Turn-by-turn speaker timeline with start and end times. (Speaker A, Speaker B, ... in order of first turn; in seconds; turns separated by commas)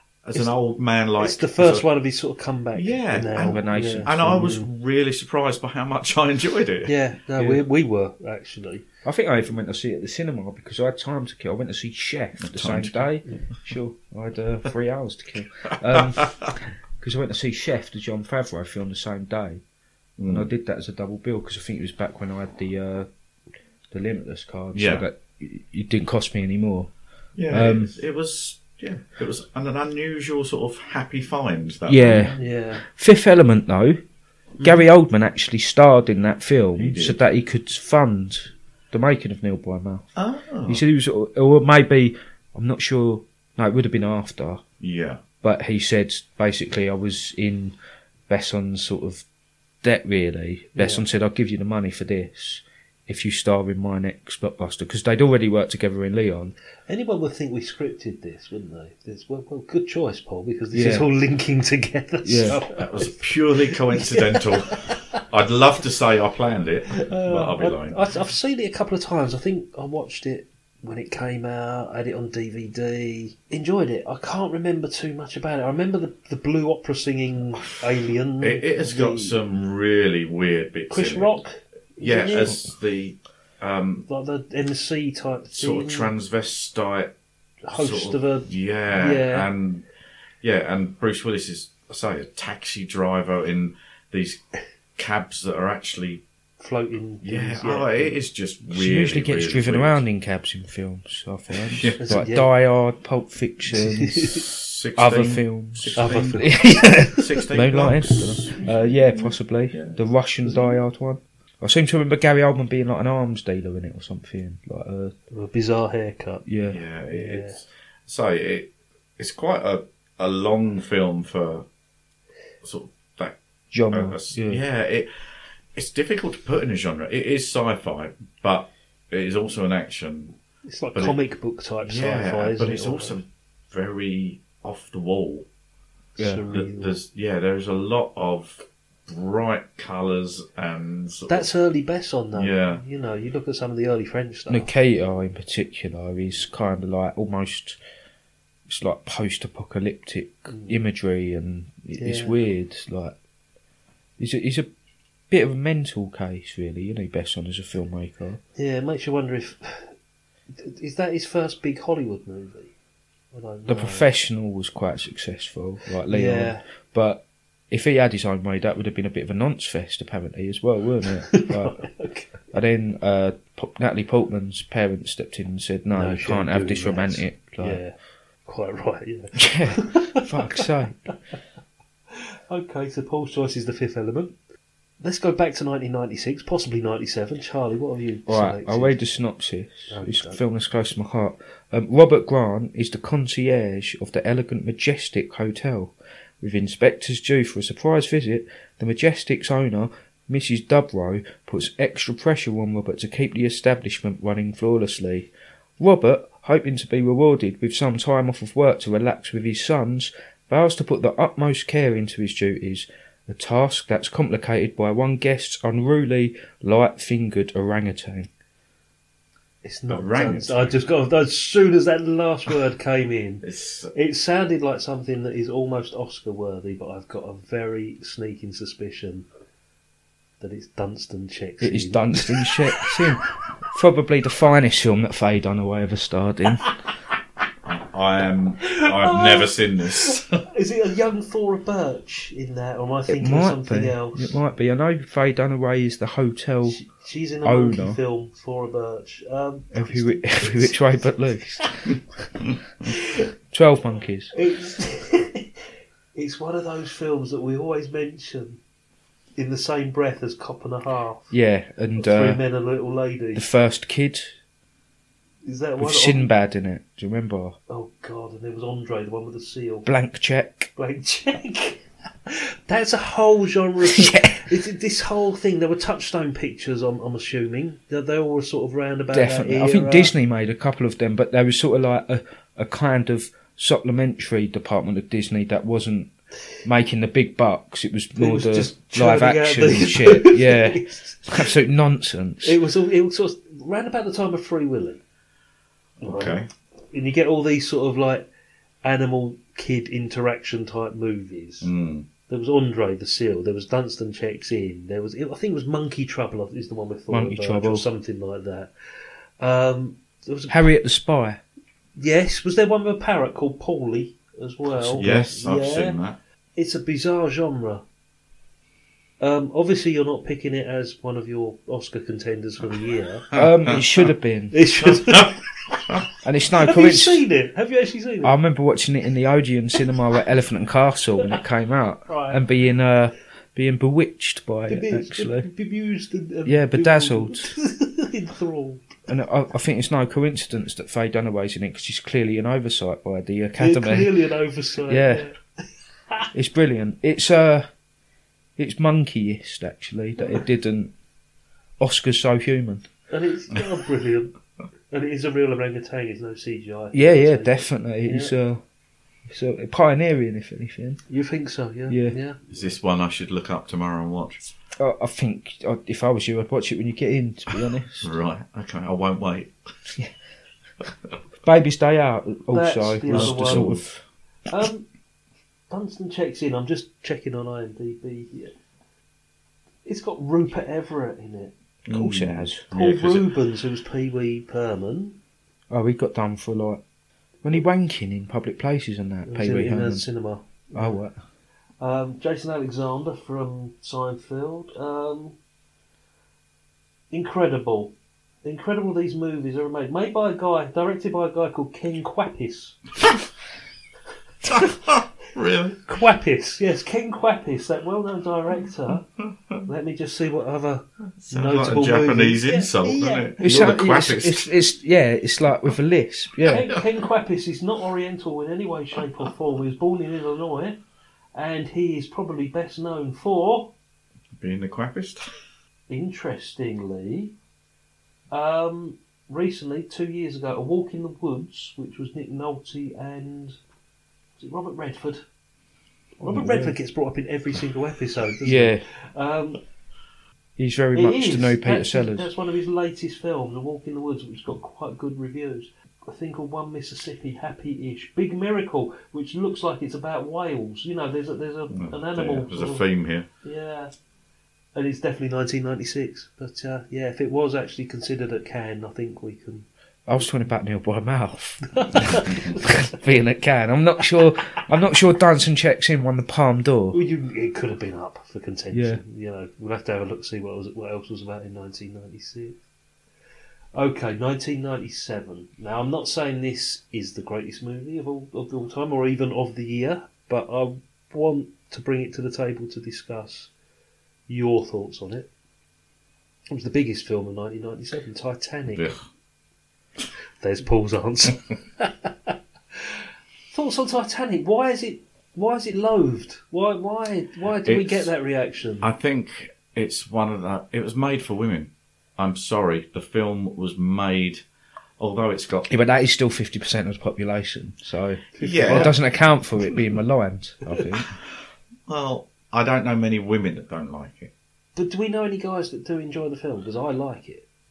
Speaker A: 0.2-1.9, Speaker B: 1.2-4.7, Speaker A: 2.8-6.9, Speaker C: 3.4-4.1, Speaker B: 6.9-8.8, Speaker C: 7.4-7.6, Speaker C: 9.1-16.4, Speaker A: 12.4-13.1, Speaker A: 16.0-16.5, Speaker C: 17.0-19.6, Speaker A: 20.2-20.5, Speaker C: 20.3-23.1, Speaker C: 23.9-26.9, Speaker A: 24.7-25.1, Speaker A: 27.4-32.4, Speaker C: 27.5-27.9, Speaker C: 31.9-34.0, Speaker B: 32.4-32.8, Speaker B: 34.6-34.9, Speaker C: 34.6-40.1, Speaker A: 36.8-37.2, Speaker A: 40.2-40.8, Speaker C: 40.7-44.6, Speaker A: 44.8-45.2, Speaker C: 45.4-47.8, Speaker C: 48.3-49.2, Speaker C: 49.8-56.5, Speaker B: 50.8-51.1, Speaker B: 56.9-65.2, Speaker C: 60.7-61.1, Speaker C: 62.2-62.6, Speaker A: 62.8-68.0, Speaker B: 67.1-79.4, Speaker A: 78.4-81.3, Speaker B: 80.9-82.6, Speaker A: 82.0-84.1, Speaker B: 84.1-86.1, Speaker A: 85.5-87.1, Speaker B: 87.7-89.5, Speaker A: 87.7-89.9, Speaker A: 90.4-94.4, Speaker A: 95.0-96.2, Speaker B: 96.6-98.2, Speaker A: 97.2-100.0, Speaker C: 98.7-104.3, Speaker A: 101.7-102.0, Speaker B: 102.0-102.5, Speaker B: 103.7-104.4, Speaker A: 104.4-108.8, Speaker C: 105.0-115.2, Speaker B: 106.0-107.2, Speaker A: 109.7-110.0, Speaker B: 115.3-116.4, Speaker C: 116.5-116.8, Speaker A: 116.7-121.7, Speaker B: 117.1-117.6, Speaker A: 122.6-123.4, Speaker C: 123.7-124.6, Speaker A: 123.9-125.1, Speaker A: 125.8-130.4, Speaker B: 130.7-133.2, Speaker A: 131.8-135.5, Speaker B: 136.2-137.0, Speaker C: 136.2-136.4, Speaker A: 136.5-141.5, Speaker B: 141.3-144.7, Speaker A: 142.3-142.8, Speaker C: 144.5-147.8, Speaker C: 148.7-153.2, Speaker B: 150.5-150.8, Speaker B: 151.9-152.4, Speaker C: 154.2-154.7, Speaker C: 155.3-158.4, Speaker B: 158.6-159.9, Speaker B: 160.5-162.7, Speaker B: 163.3-164.1, Speaker C: 163.7-171.8, Speaker B: 166.1-166.7, Speaker B: 171.3-172.5, Speaker C: 172.5-177.8, Speaker B: 175.9-177.9, Speaker B: 178.5-180.7, Speaker C: 179.4-181.1, Speaker B: 182.1-184.3, Speaker B: 185.0-189.0, Speaker C: 188.3-218.3, Speaker B: 189.9-190.4, Speaker B: 219.6-229.3, Speaker A: 219.9-220.8, Speaker A: 223.4-223.9, Speaker B: 230.4-232.9, Speaker C: 231.6-236.7, Speaker A: 237.7-240.4, Speaker B: 238.7-244.4, Speaker C: 243.1-246.8, Speaker B: 246.7-251.7, Speaker C: 247.4-248.0, Speaker C: 249.7-252.0, Speaker B: 252.9-253.2, Speaker C: 253.5-254.3, Speaker B: 254.3-255.5, Speaker B: 256.1-258.6, Speaker B: 259.4-261.3, Speaker C: 261.3-262.4, Speaker B: 262.0-263.4, Speaker C: 263.4-264.4, Speaker B: 265.4-266.3, Speaker C: 265.8-267.6, Speaker B: 267.7-269.9, Speaker C: 269.9-270.7, Speaker B: 270.8-280.1, Speaker C: 273.8-274.5, Speaker C: 279.1-286.1, Speaker C: 286.6-292.6, Speaker B: 288.2-291.5, Speaker B: 292.4-295.0, Speaker B: 296.0-296.4, Speaker A: 296.0-296.5, Speaker B: 296.9-298.3, Speaker B: 298.8-301.7, Speaker A: 301.6-302.1, Speaker B: 302.3-308.7, Speaker C: 307.1-307.9, Speaker B: 309.4-310.7, Speaker C: 310.5-311.4, Speaker B: 312.0-316.0, Speaker C: 314.9-315.3, Speaker A: 315.0-316.2, Speaker B: 316.6-317.8, Speaker B: 319.2-323.3, Speaker A: 323.3-323.8, Speaker C: 323.3-324.6, Speaker B: 324.5-325.4, Speaker C: 326.2-327.2, Speaker B: 326.6-328.3, Speaker C: 328.2-335.5, Speaker B: 332.1-332.4, Speaker B: 334.7-338.9, Speaker C: 336.5-337.5, Speaker C: 339.1-344.1, Speaker B: 343.6-345.4, Speaker C: 344.9-345.3, Speaker C: 346.3-347.7, Speaker C: 348.6-350.9, Speaker C: 351.8-352.9, Speaker B: 353.1-354.3, Speaker B: 354.9-358.3, Speaker C: 356.9-358.6, Speaker C: 359.3-361.0, Speaker B: 361.1-362.4, Speaker C: 361.9-362.2, Speaker A: 362.5-364.4, Speaker C: 364.8-368.1, Speaker A: 368.0-369.5, Speaker C: 371.4-374.0, Speaker B: 372.5-373.7, Speaker A: 373.1-373.9, Speaker B: 374.5-374.9, Speaker B: 375.7-378.5, Speaker B: 379.9-381.5, Speaker A: 381.9-383.3, Speaker C: 381.9-382.6, Speaker B: 382.7-385.2, Speaker C: 385.7-386.8, Speaker C: 387.4-390.1, Speaker B: 389.3-391.0, Speaker C: 390.7-391.2, Speaker B: 391.8-395.4, Speaker B: 397.1-397.9, Speaker B: 398.4-402.8, Speaker A: 404.4-405.8, Speaker B: 405.9-409.1, Speaker B: 409.7-413.4, Speaker A: 411.2-414.5, Speaker C: 413.4-416.7, Speaker B: 416.5-420.8, Speaker B: 421.4-423.7, Speaker A: 424.4-425.3, Speaker B: 425.9-427.3, Speaker B: 428.3-433.6, Speaker B: 434.4-435.2, Speaker B: 436.2-439.6, Speaker C: 436.2-436.8, Speaker C: 438.4-438.8, Speaker C: 440.6-442.3, Speaker B: 440.9-452.9, Speaker A: 451.7-453.3, Speaker B: 453.4-453.9, Speaker B: 454.8-459.7, Speaker C: 460.1-467.0, Speaker B: 461.7-462.8, Speaker B: 466.9-472.6, Speaker C: 468.7-469.0, Speaker B: 473.8-483.5, Speaker B: 484.3-485.3, Speaker B: 486.5-488.9, Speaker A: 488.7-489.1, Speaker B: 490.4-493.0, Speaker B: 493.5-498.9, Speaker A: 497.6-498.1, Speaker A: 498.8-504.4, Speaker A: 505.0-505.7, Speaker C: 505.7-511.1, Speaker B: 508.4-509.0, Speaker A: 508.4-508.9, Speaker A: 511.9-514.3, Speaker B: 514.8-517.5